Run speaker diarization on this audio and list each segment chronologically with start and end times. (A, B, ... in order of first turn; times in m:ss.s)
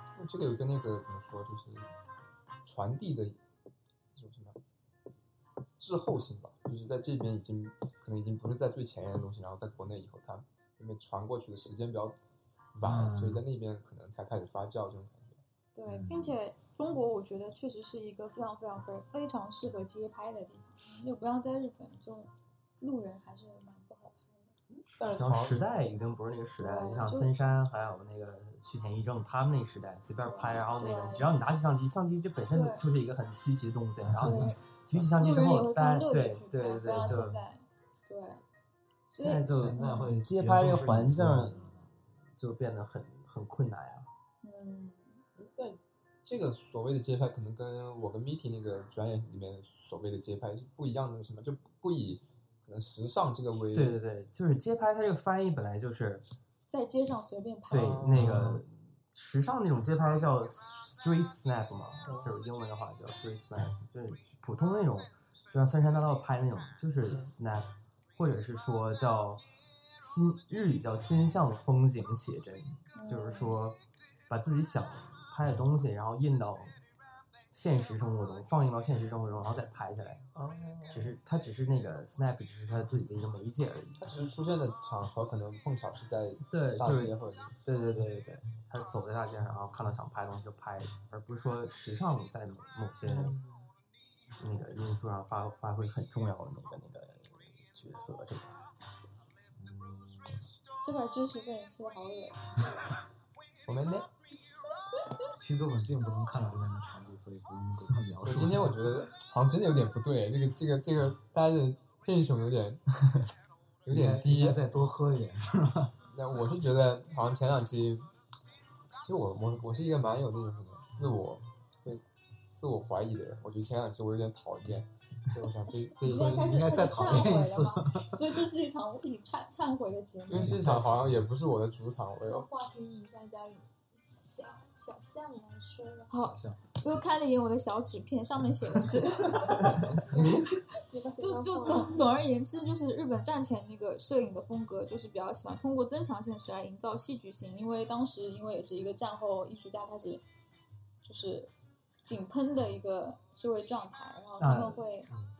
0:00.2-0:01.9 A
0:02.6-0:03.4 A
0:04.1-0:04.6 A
0:05.8-0:12.2 A
0:12.7-0:15.4 A
0:12.8-0:13.4 B
0:15.8-0:24.5 C
0:15.9-0:16.4 B
0:24.7-0:25.6 A
0:25.2-0:37.4 D
0:26.6-0:27.3 C
0:30.2-0:31.3 C
0:32.5-0:32.8 C
0:34.0-0:34.5 B
0:34.2-0:38.4 C
0:39.1-0:41.7 D
0:39.1-0:40.1 C
0:39.4-0:41.9 B
0:42.4-0:44.1 D
0:44.4-0:45.2 C
0:45.4-0:54.0 A
0:53.7-0:56.2 D
0:56.7-0:58.1 C
0:57.7-1:09.4 D
0:57.7-0:58.6 A
0:58.2-0:58.6 B
1:02.1-1:02.4 A
1:10.0-1:13.8 D
1:13.0-1:13.6 C
1:14.3-1:16.8 D
1:17.5-1:20.3 D
1:20.4-1:21.2 A
1:20.9-1:24.0 D
1:24.0-1:27.6 A
1:26.5-1:33.4 D
1:33.0-1:33.6 A
1:34.4-1:38.6 D
1:39.6-1:40.4 B
1:40.8-1:42.7 C
1:43.7-1:44.1 A
1:45.4-1:48.9 B
1:48.2-1:52.8 A
1:53.8-1:54.6 A
1:53.9-1:56.0 B
1:56.1-1:58.1 A
1:59.0-2:06.8 A
2:06.0-2:10.6 C
2:06.1-2:08.4 B
2:10.3-2:11.3 B
2:10.3-2:12.5 A
2:12.2-2:16.1 E
2:16.1-2:30.2 C
2:16.2-2:16.6 B
2:19.4-2:20.0 B
2:20.1-2:22.1 E
2:20.1-2:20.5 A
2:31.0-2:31.5 C
2:32.0-2:35.1 C
2:34.4-2:34.8 D